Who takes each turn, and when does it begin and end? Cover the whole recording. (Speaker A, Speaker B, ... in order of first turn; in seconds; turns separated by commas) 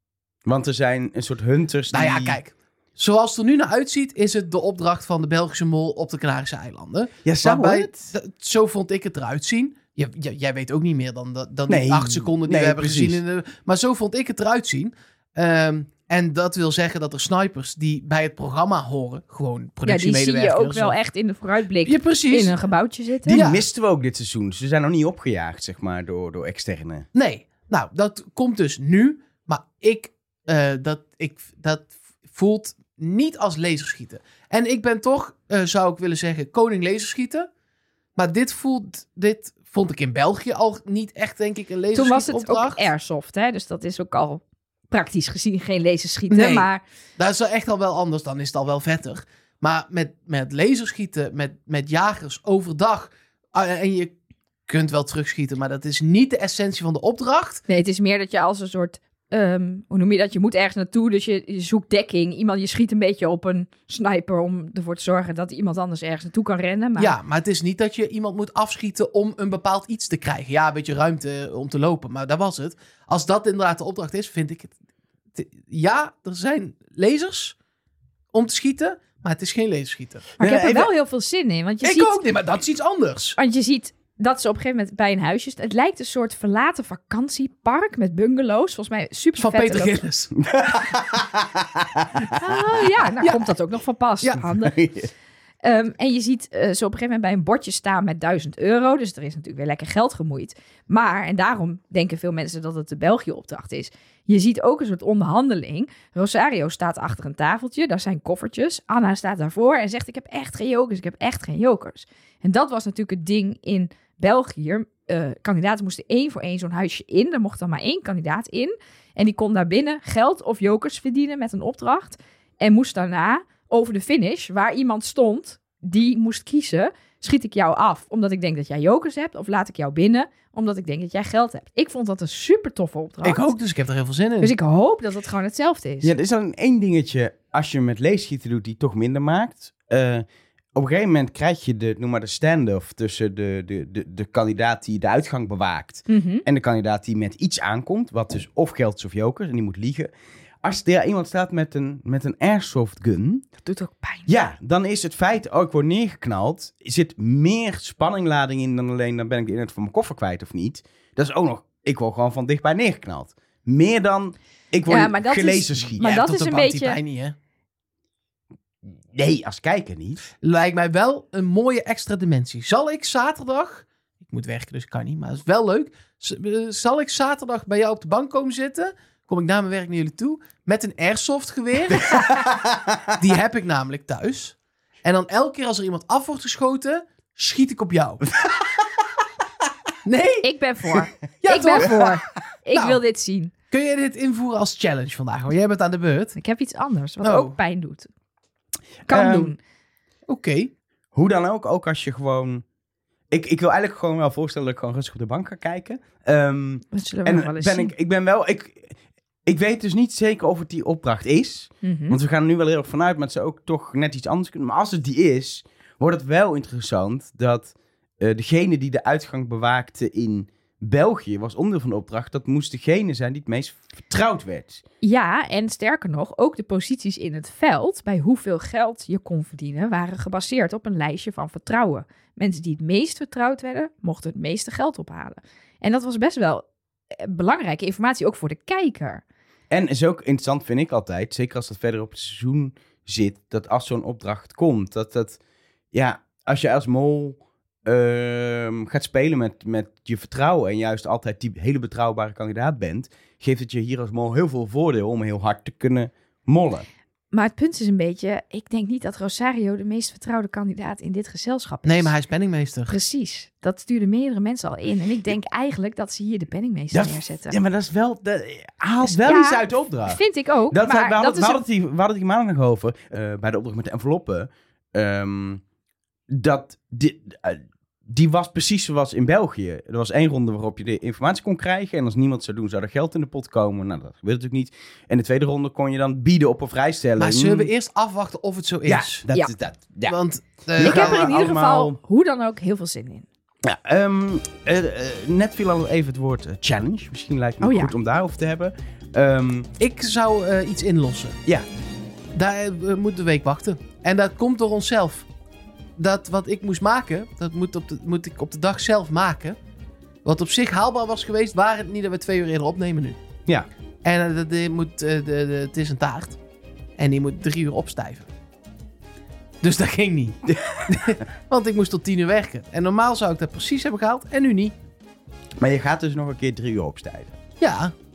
Speaker A: 0.4-2.4, Speaker B: 1.9-21.0, Speaker A: 7.2-8.1, Speaker A: 11.7-13.2, Speaker C: 19.9-23.4, Speaker B: 21.8-22.5, Speaker A: 23.2-27.1, Speaker B: 23.3-23.6, Speaker B: 27.1-37.5, Speaker B: 38.1-42.8, Speaker C: 41.9-46.8, Speaker B: 46.3-54.1, Speaker B: 54.7-57.6, Speaker C: 57.7-67.2, Speaker B: 67.0-74.7, Speaker B: 75.3-77.5, Speaker B: 78.3-80.3, Speaker A: 80.4-80.9, Speaker C: 80.4-82.2, Speaker B: 81.8-83.4, Speaker C: 83.4-90.0, Speaker B: 89.4-90.3, Speaker A: 90.4-92.6, Speaker C: 92.3-94.8, Speaker B: 93.2-93.5, Speaker A: 94.4-95.1, Speaker C: 95.6-133.5, Speaker B: 133.2-134.5, Speaker C: 134.4-136.1, Speaker A: 136.0-150.1, Speaker C: 146.1-146.4, Speaker A: 150.6-153.4, Speaker C: 153.6-154.3, Speaker A: 154.3-166.1, Speaker C: 164.9-167.0, Speaker B: 166.0-167.3, Speaker A: 169.1-170.3, Speaker B: 170.4-182.2, Speaker A: 182.0-183.1, Speaker B: 183.2-188.2, Speaker B: 190.0-190.5, Speaker C: 190.4-193.5, Speaker B: 191.4-192.2, Speaker B: 192.7-193.0, Speaker B: 193.7-196.4, Speaker C: 196.4-198.1, Speaker B: 197.2-197.6, Speaker A: 199.1-199.5, Speaker C: 199.1-199.6, Speaker B: 200.3-200.7, Speaker A: 201.1-202.6, Speaker A: 203.3-224.8, Speaker C: 206.9-207.9, Speaker C: 211.8-212.2, Speaker C: 225.0-239.2, Speaker A: 239.7-245.4, Speaker A: 245.9-256.9, Speaker C: 257.3-262.1, Speaker B: 261.8-262.9, Speaker C: 262.9-267.6, Speaker A: 266.9-270.2, Speaker C: 269.0-271.6, Speaker A: 270.7-275.6, Speaker A: 276.3-287.7, Speaker B: 287.2-289.2, Speaker A: 288.9-290.2, Speaker B: 290.1-291.3, Speaker A: 290.8-292.0, Speaker C: 290.8-293.2, Speaker A: 293.6-299.7, Speaker C: 297.6-297.9, Speaker B: 299.8-301.4, Speaker B: 302.3-305.3, Speaker B: 306.0-309.6, Speaker B: 310.2-313.2, Speaker B: 314.0-316.4, Speaker B: 317.0-318.3, Speaker B: 319.6-324.8, Speaker A: 320.5-321.2, Speaker A: 325.6-327.4, Speaker B: 327.6-327.9